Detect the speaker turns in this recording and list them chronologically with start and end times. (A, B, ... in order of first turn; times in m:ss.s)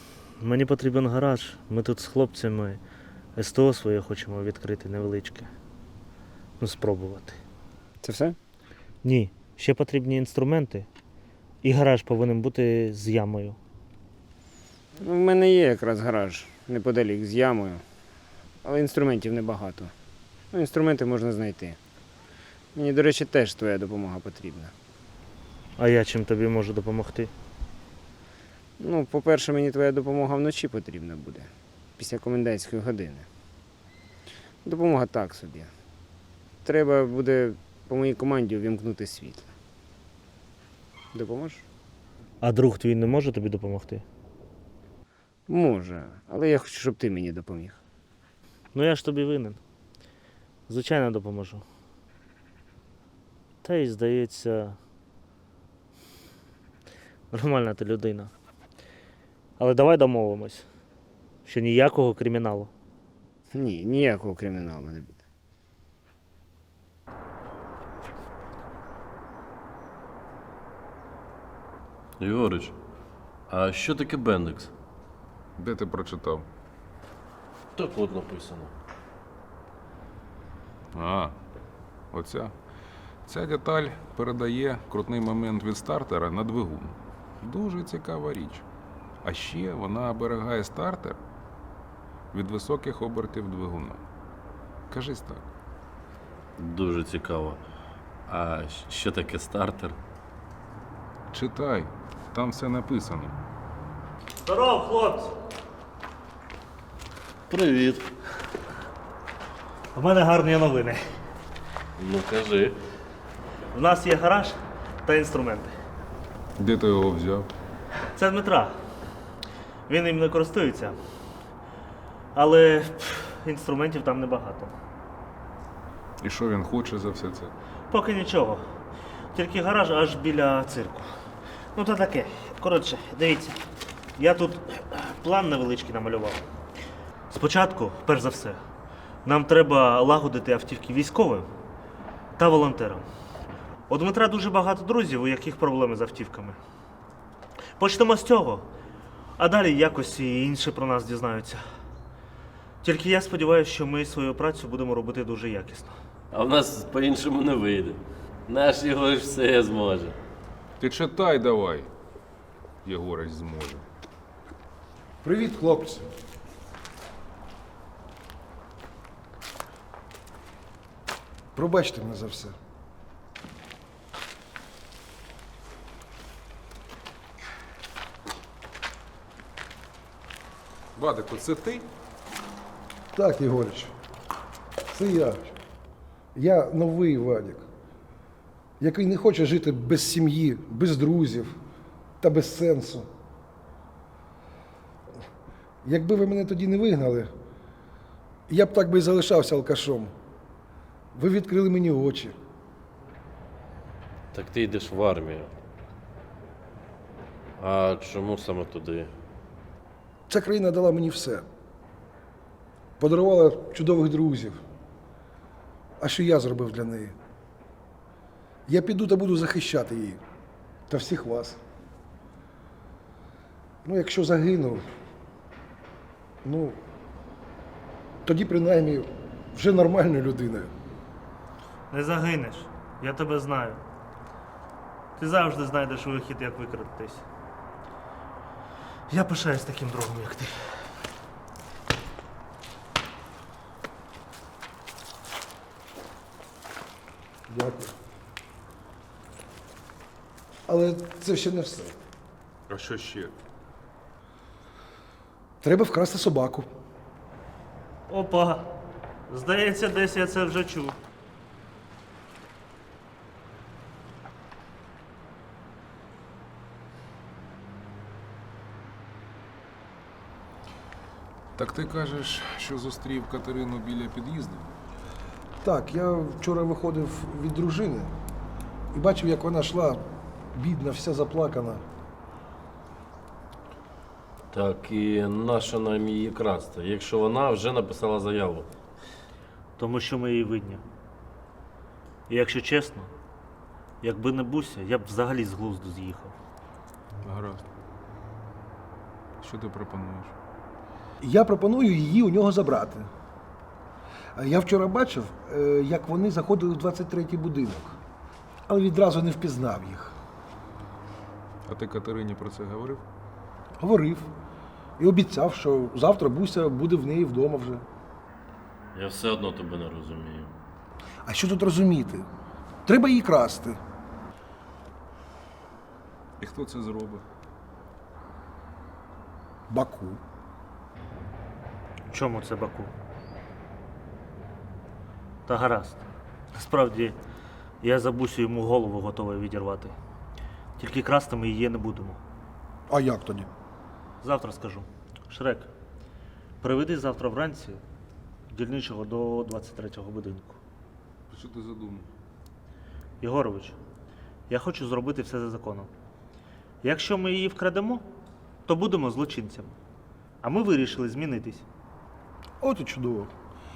0:00.4-0:02.8 A
0:03.4-0:05.5 A
0:06.6-0:07.4 A
0:08.0-0:08.4 B
0:09.0-0:10.9 A
0:11.6-0:13.6 A
0:15.0-0:17.8 B
0:18.6-0:19.9 B
0:20.5-0:21.8 B
0:22.8-0:24.7 B
0:25.8-0:27.3 A
0:28.8-0:33.3 B
0:34.6-0:35.7 B
0:36.6-0:39.5 B
0:41.1-0:41.6 B
0:42.4-0:44.0 A
0:45.5-0:47.8 B
0:48.7-0:49.6 A
0:50.7-0:51.6 A
0:53.6-0:54.8 A
0:57.3-0:58.3 A
0:59.6-1:00.7 A
1:01.5-1:02.7 A
1:03.5-1:05.1 B
1:12.2-1:12.8 C
1:13.5-1:14.7 C
1:15.6-1:16.4 D
1:17.8-1:18.7 C
1:20.9-1:21.4 D
1:22.1-1:22.5 D
1:23.3-1:28.6 D
1:29.2-1:31.2 D
1:32.3-1:34.0 D
1:34.9-1:35.4 D
1:36.6-1:37.6 C
1:38.3-1:40.0 C
1:41.3-1:43.4 D
1:44.4-1:45.4 A
1:47.5-1:48.1 C
1:50.0-1:51.0 A
1:52.0-1:52.8 C
1:53.7-1:55.7 A
1:56.6-1:57.5 D
1:58.2-1:58.8 A
1:59.9-2:01.0 A
2:02.4-2:04.7 A
2:06.2-2:07.5 D
2:07.9-2:08.8 A
2:09.3-2:11.1 A
2:11.8-2:13.6 A
2:14.2-2:16.4 A
2:17.3-2:18.6 A
2:19.2-2:21.5 A
2:22.4-2:23.0 A
2:23.9-2:26.6 A
2:27.8-2:28.7 A
2:29.4-2:31.6 A
2:32.8-2:35.9 A
2:36.3-2:40.2 C
2:40.8-2:41.9 D
2:42.8-2:43.8 D
2:45.2-2:46.1 E
2:51.6-2:52.6 E
3:01.0-3:01.9 D
3:03.1-3:03.9 E
3:04.9-3:05.5 E
3:06.4-3:07.7 E
3:08.8-3:11.6 E
3:12.2-3:13.1 E
3:15.8-3:17.3 E
3:18.5-3:20.2 E
3:21.1-3:22.4 E
3:24.3-3:25.5 C
3:27.6-3:29.1 C
3:30.3-3:31.5 E
3:33.0-3:34.6 E
3:36.0-3:37.2 E
3:38.7-3:40.2 E
3:40.9-3:41.6 E
3:43.8-3:44.9 E
3:46.4-3:46.8 E
3:48.2-3:50.7 E
3:51.9-3:53.8 A
3:55.2-3:57.3 A
3:59.1-4:00.8 A
4:07.5-4:07.9 E
4:10.7-4:11.9 E
4:12.7-4:13.3 D
4:15.6-4:16.7 E
4:18.1-4:18.7 A
4:19.3-4:21.0 A
4:31.6-4:34.7 D
4:35.6-4:38.1 E
4:38.9-4:41.8 E
4:44.5-4:48.7 C
4:49.8-4:50.8 A
4:52.3-4:53.1 A
4:54.0-4:56.4 A
4:57.2-4:57.6 D
4:59.4-5:00.3 D
5:01.2-5:03.1 E
5:04.4-5:08.0 E
5:08.7-5:10.2 E
5:11.7-5:13.0 D
5:13.8-5:14.3 E
5:15.0-5:17.8 E
5:19.0-5:20.5 C
5:21.2-5:22.3 E
5:22.9-5:23.8 E
5:26.4-5:27.2 D
5:29.7-5:30.2 E
5:32.1-5:32.9 A
5:35.5-5:37.2 A
5:37.8-5:40.0 A
5:40.8-5:42.2 A
5:42.9-5:43.5 E
5:44.2-5:45.7 A
5:46.6-5:47.8 A
5:48.5-5:50.6 A
5:51.3-5:52.1 D
5:53.2-5:53.8 A
5:54.5-5:55.9 A
5:56.8-5:58.1 A
5:58.7-5:59.8 A
6:00.4-6:01.6 A
6:02.6-6:03.3 E